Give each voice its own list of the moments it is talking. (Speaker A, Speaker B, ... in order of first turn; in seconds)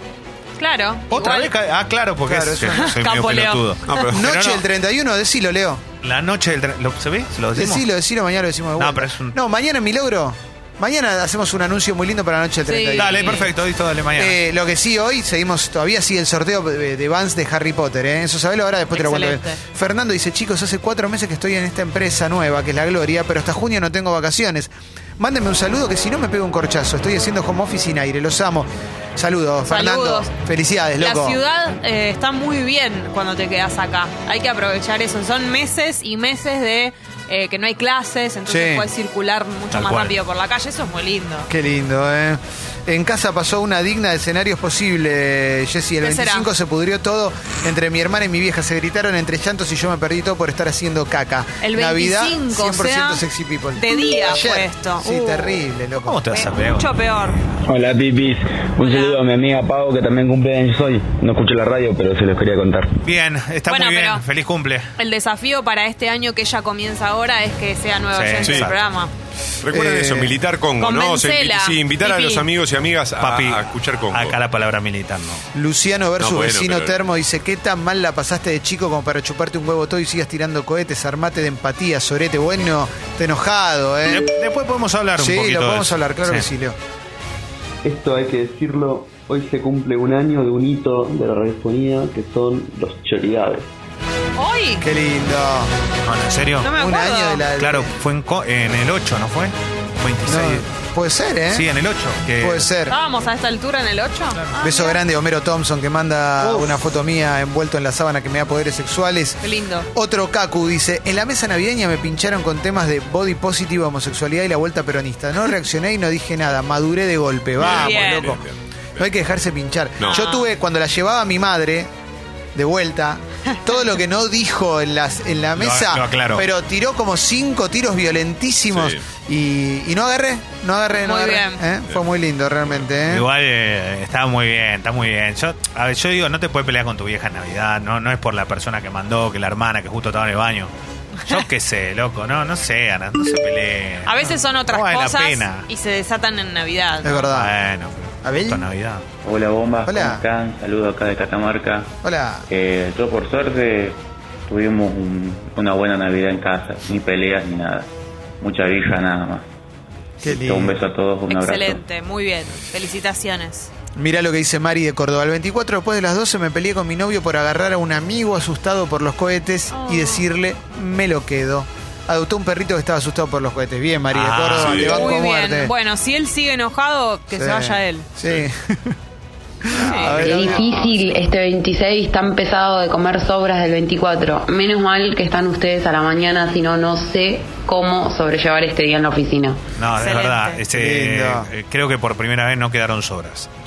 Speaker A: 0.6-1.5, 2.7-3.6, 12.7-13.5, 18.9-19.6, 29.6-30.3, 31.0-41.5, 46.0-46.5, 51.6-53.2, 53.8-55.6, 56.3-57.4, 58.8-59.2, 63.7-64.2, 65.0-69.1, 70.8-72.5, 94.4-94.8, 96.6-97.4, 102.9-105.0, 109.4-109.9, 117.7-118.3, 120.1-120.5, 131.0-131.6, 144.1-147.2, 161.3-163.7, 169.7-170.2, 174.9-178.1, 179.7-180.5, 189.9-190.6
Speaker B: 1.1-4.6, 6.0-7.8, 8.8-9.4, 13.0-14.4, 39.7-40.1, 56.0-56.9, 63.0-64.9, 68.1-68.8, 73.2-75.5, 84.1-86.5, 96.0-96.7, 97.6-100.7, 101.5-102.7, 106.4-106.7, 125.6-126.5, 133.1-140.7, 141.2-145.7, 147.3-149.0, 174.1-174.9, 189.8-193.5
Speaker C: 2.3-2.9, 4.1-5.8, 7.5-13.5, 14.1-31.4, 38.5-38.9, 41.5-56.2, 69.7-70.4, 75.5-84.3, 85.2-86.8, 94.8-95.7, 96.7-97.9, 100.3-101.7, 102.4-103.0, 104.6-109.4, 109.9-118.4, 119.0-121.9, 122.5-133.2, 147.0-147.5, 148.2-148.7, 149.8-150.2, 152.0-152.5, 160.2-160.9, 163.9-175.7, 177.3-178.9, 179.6-180.7, 190.7-191.5
Speaker D: 3.9-4.3, 68.4-68.7, 69.6-74.4, 76.2-77.0, 117.6-118.5, 128.7-129.0, 174.6-174.9
Speaker E: 57.7-62.9, 87.8-93.7
Speaker F: 149.2-151.9, 152.5-159.4, 160.2-161.8
Speaker G: 180.1-189.6